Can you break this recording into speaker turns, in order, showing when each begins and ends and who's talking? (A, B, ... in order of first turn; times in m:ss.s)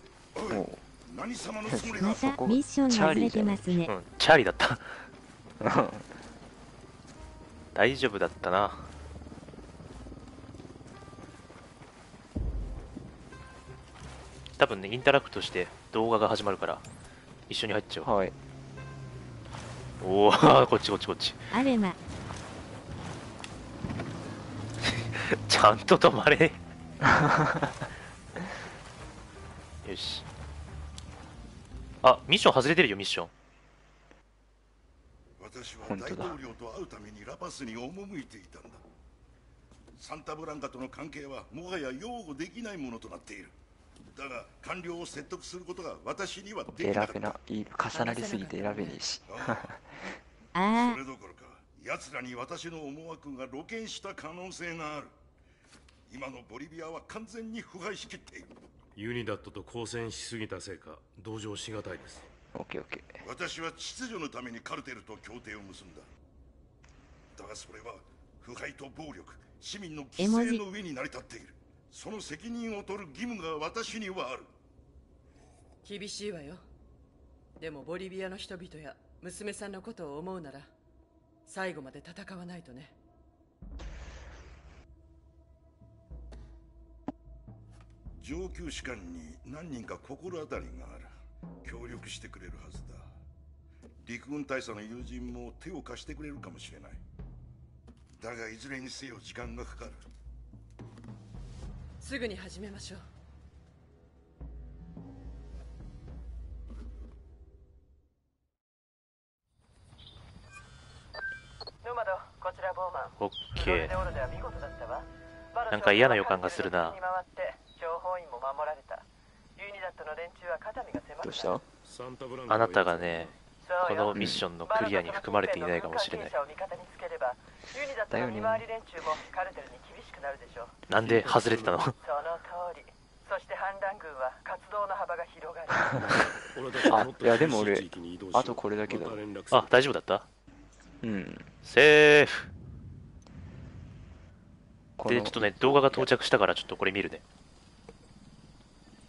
0:00.3-0:02.4 A
0:00.5-0:00.8 B
0:01.7-0:03.7 B
0:02.0-0:03.9 C
0:03.9-0:05.0 D
0:05.6-0:06.1 B
0:07.7-0:08.9 D
0:14.6-0:16.8 D
0:17.5-0:18.1 D
0:18.0-0:18.3 B
0:20.0-0:21.4 D
0:21.5-0:22.0 C
0:24.8-0:26.6 D
0:27.0-0:27.8 B
0:29.8-0:30.2 D
0:32.0-0:33.3 D
0:35.4-0:38.8 A
0:35.9-0:36.3 B
0:40.0-0:43.5 A
0:44.1-0:47.3 A
0:46.8-0:49.8 B
0:47.9-0:49.0 E
0:49.3-0:49.8 A
0:50.5-0:51.0 C
0:50.7-0:55.1 A
0:56.1-0:58.5 A
0:59.0-1:02.2 F
1:02.5-1:03.2 B
1:03.2-1:06.0 A
1:07.3-1:14.5 A
1:10.2-1:10.6 C
1:15.8-1:16.6 E
1:17.6-1:20.7 E
1:21.5-1:22.9 E
1:28.2-1:31.1 A
1:31.6-1:33.1 A
1:34.0-1:37.0 A
1:38.2-1:40.0 A
1:42.0-1:43.0 E
1:51.8-1:59.0 E
1:53.2-1:53.9 D
1:55.7-1:57.0 D
1:59.6-2:01.6 E
2:01.2-2:01.6 B
2:01.8-2:03.4 F
2:02.5-2:03.3 D
2:03.6-2:10.8 E
2:03.8-2:06.3 D
2:04.1-2:04.4 B
2:08.1-2:08.6 B
2:10.9-2:11.9 D
2:11.0-2:11.9 F
2:12.0-2:16.0 E
2:15.9-2:19.7 F
2:16.9-2:19.2 B
2:19.5-2:20.3 D
2:21.0-2:21.5 B
2:21.6-2:22.5 D
2:25.0-2:26.1 B
2:25.0-2:27.2 D